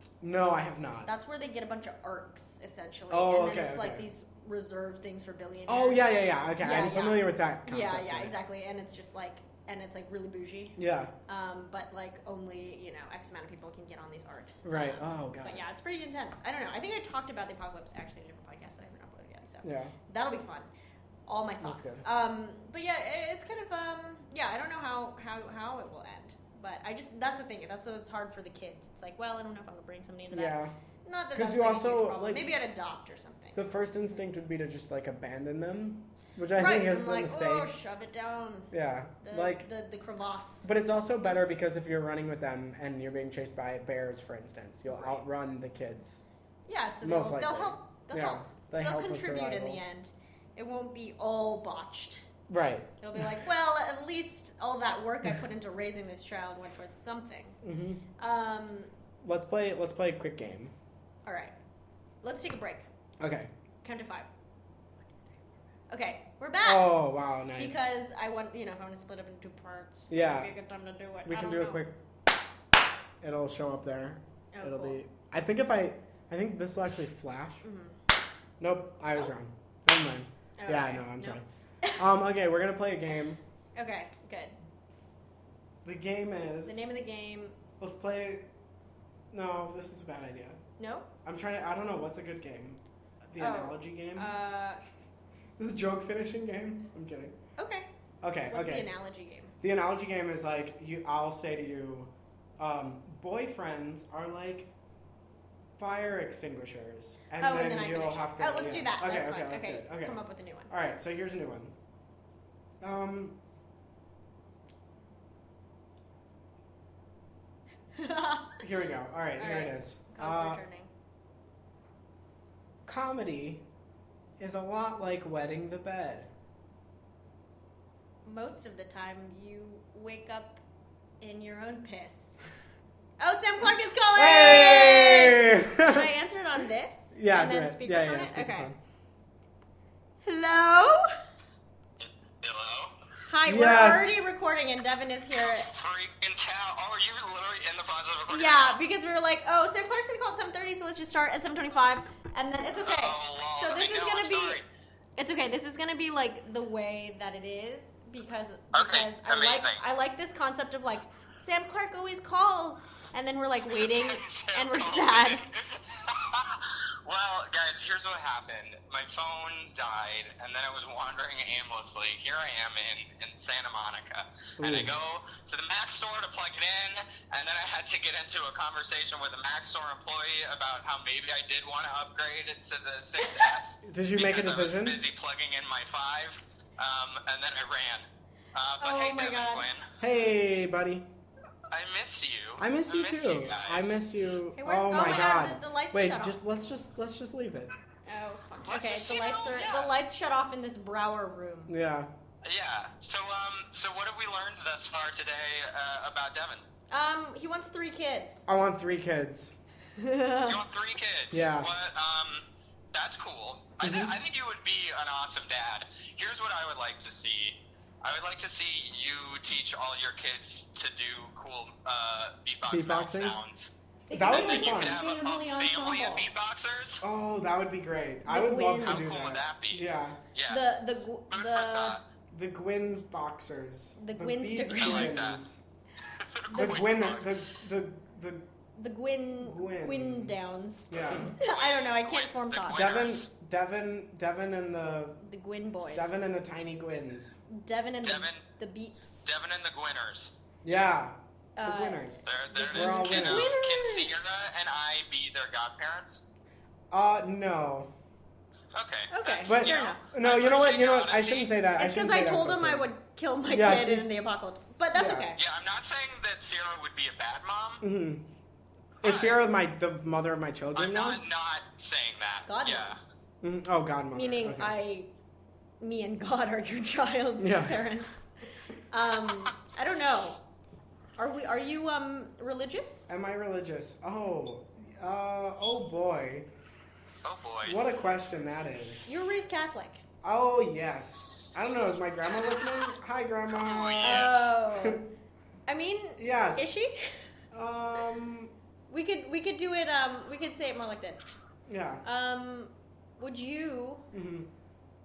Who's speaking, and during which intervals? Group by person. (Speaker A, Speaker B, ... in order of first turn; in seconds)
Speaker A: 0.2-1.1, 3.1-4.1, 5.7-8.3, 10.8-11.1, 14.7-15.6, 19.6-19.9, 21.6-22.0, 30.3-30.7, 31.3-32.5, 33.5-37.7, 38.7-39.7, 40.6-46.2, 47.0-49.8, 52.5-53.3, 57.6-58.0, 59.2-60.7, 63.2-63.5, 66.6-67.8, 70.1-70.5, 71.2-72.0, 73.2-77.6, 78.6-81.5, 82.0-83.4, 85.8-86.9, 87.8-88.5, 89.3-90.6, 91.2-94.3, 95.6-97.4, 98.2-98.9, 99.6-104.7, 105.8-111.7, 112.8-113.4, 118.6-120.6, 122.9-123.6, 124.4-126.3, 134.2-136.1, 137.1-138.8, 143.5-144.3, 174.6-174.9, 183.8-185.0, 190.0-191.1, 192.6-197.7, 201.7-202.1, 208.5-209.5, 211.3-211.7, 213.8-214.1, 222.7-223.4, 224.1-225.0, 227.0-230.2, 232.3-235.6, 236.6-238.5, 239.4-240.4, 240.9-241.3, 242.7-245.2, 245.9-247.4, 250.6-253.6, 256.9-257.9, 259.5-262.9, 263.5-264.1, 264.9-265.3, 267.8-268.3, 269.0-271.2, 273.4-274.7, 277.4-277.9, 283.1-286.5, 287.6-289.1, 290.2-295.1, 296.2-296.8, 297.5-298.5, 301.7-302.0, 304.1-304.5
Speaker B: 1.1-20.7, 21.3-33.6, 36.5-38.7, 39.2-40.7, 44.9-45.2, 46.7-52.3, 53.0-57.6, 58.2-58.9, 61.2-61.5, 62.2-62.9, 63.8-64.3, 65.9-67.0, 67.6-71.9, 74.5-75.0, 77.6-78.0, 80.6-82.0, 83.8-84.6, 86.7-87.6, 90.8-91.1, 93.4-94.8, 97.6-97.9, 98.5-99.5, 107.4-110.7, 118.0-118.6, 119.4-120.9, 128.2-130.6, 131.2-132.4, 133.2-138.7, 140.2-141.1, 143.2-145.7, 148.3-154.6, 155.2-165.4, 183.2-183.5, 188.8-189.7, 194.6-196.4, 198.1-201.7, 206.9-208.5, 210.0-210.6, 224.1-226.3, 228.3-229.3, 230.5-232.0, 234.0-235.4, 236.5-237.0, 238.8-243.0, 245.2-246.2, 247.5-249.4, 251.6-254.2, 259.1-260.1, 261.8-265.4, 272.5-273.0, 274.1-275.1, 275.8-278.3, 278.9-280.4, 281.2-283.1, 289.1-290.0, 294.0-295.1, 295.7-297.2, 298.9-301.3, 302.0-304.1
Speaker C: 142.0-142.9, 145.3-148.8, 152.8-154.7, 158.7-159.8, 163.7-189.9, 191.7-194.0, 198.7-199.9, 202.4-206.7, 210.4-223.7, 224.3-227.0, 228.8-229.8, 230.3-230.7, 231.3-232.0, 234.8-235.4, 236.0-237.4, 241.4-243.3, 248.0-248.4, 249.2-250.3, 252.2-256.2, 258.7-261.5, 265.4-267.8, 269.0-269.4, 270.8-273.0, 287.2-287.8, 293.5-294.5